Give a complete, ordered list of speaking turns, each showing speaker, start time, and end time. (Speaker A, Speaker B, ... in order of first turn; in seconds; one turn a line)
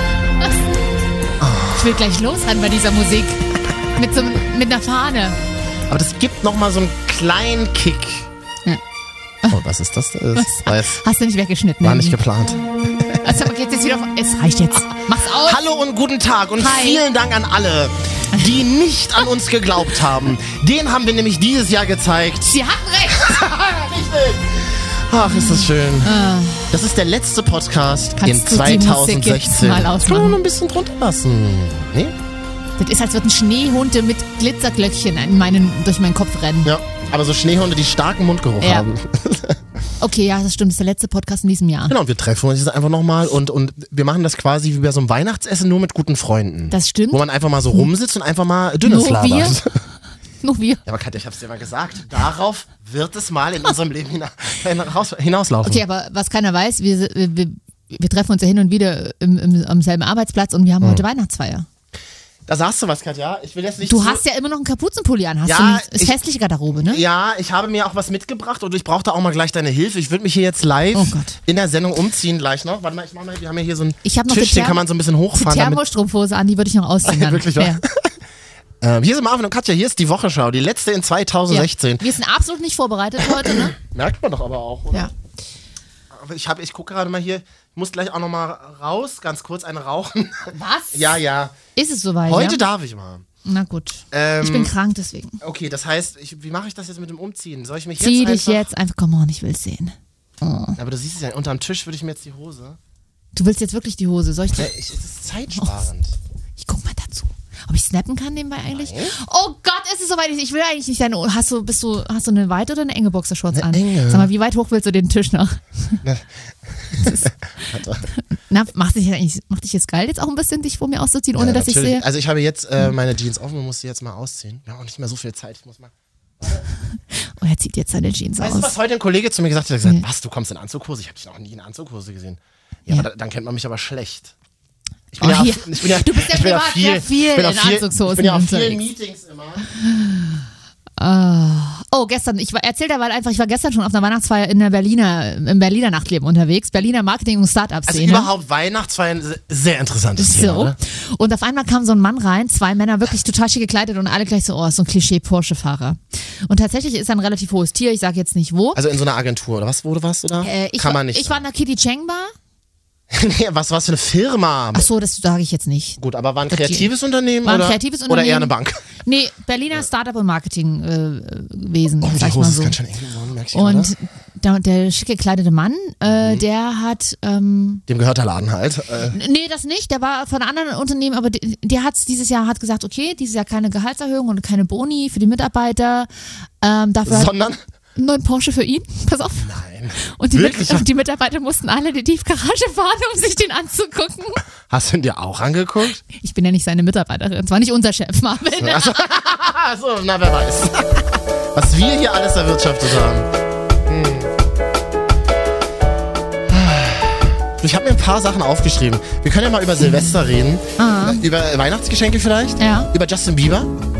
Speaker A: 1.4-1.9
Speaker B: 1.7-3.4
Speaker B: 3.9-5.4
Speaker A: 5.9-8.3
Speaker A: 9.5-11.0
Speaker B: 10.3-12.2
Speaker A: 11.8-12.6
Speaker B: 13.2-15.6
Speaker A: 15.3-32.1
Speaker B: 16.6-17.0
Speaker B: 22.4-23.4
Speaker B: 25.3-26.8
Speaker B: 28.1-30.4
Speaker B: 32.8-36.7
Speaker A: 36.6-39.6
Speaker B: 38.6-38.9
Speaker B: 40.0-42.0
Speaker A: 41.9-49.7
Speaker B: 46.7-47.2
Speaker B: 48.8-49.6
Speaker B: 50.4-50.8
Speaker A: 50.9-55.8
Speaker B: 55.6-61.7
Speaker A: 62.5-64.2
Speaker B: 63.8-67.0
Speaker A: 65.5-66.2
Speaker A: 66.8-75.8
Speaker B: 70.9-71.4
Speaker B: 74.0-74.8
Speaker B: 75.3-77.8
Speaker A: 77.0-78.2
Speaker A: 78.8-82.0
Speaker B: 81.5-83.8
Speaker A: 83.2-85.1
Speaker A: 86.1-91.5
Speaker B: 90.5-91.1
Speaker B: 91.7-92.6
Speaker A: 92.2-93.2
Speaker B: 93.4-95.4
Speaker A: 94.1-94.7
Speaker A: 95.4-98.7
Speaker B: 98.0-100.8
Speaker A: 100.8-102.8
Speaker B: 103.3-104.7
Speaker A: 104.6-106.2
Speaker B: 106.6-116.0
Speaker A: 108.7-109.1
Speaker A: 113.5-114.3
Speaker A: 116.0-118.1
Speaker B: 118.1-122.0
Speaker A: 121.3-126.6
Speaker B: 127.1-128.7
Speaker A: 128.4-134.3
Speaker A: 135.1-139.7
Speaker B: 135.2-138.8
Speaker B: 139.6-148.3
Speaker A: 147.9-150.8
Speaker B: 150.2-158.8
Speaker A: 158.7-161.4
Speaker B: 160.4-162.3
Speaker A: 163.1-164.9
Speaker B: 164.7-166.9
Speaker A: 166.0-168.9
Speaker B: 167.4-172.8
Speaker A: 172.0-173.9
Speaker B: 173.5-177.8
Speaker A: 176.1-176.4
Speaker A: 177.9-179.2
Speaker B: 179.1-186.1
Speaker B: 186.6-187.4
Speaker A: 187.0-187.6
Speaker B: 187.9-194.4
Speaker A: 189.4-190.9
Speaker A: 194.7-196.0
Speaker B: 196.1-199.1
Speaker A: 198.6-203.3
Speaker A: 203.9-204.3
Speaker A: 206.5-213.7
Speaker B: 210.8-211.2
Speaker B: 212.6-212.9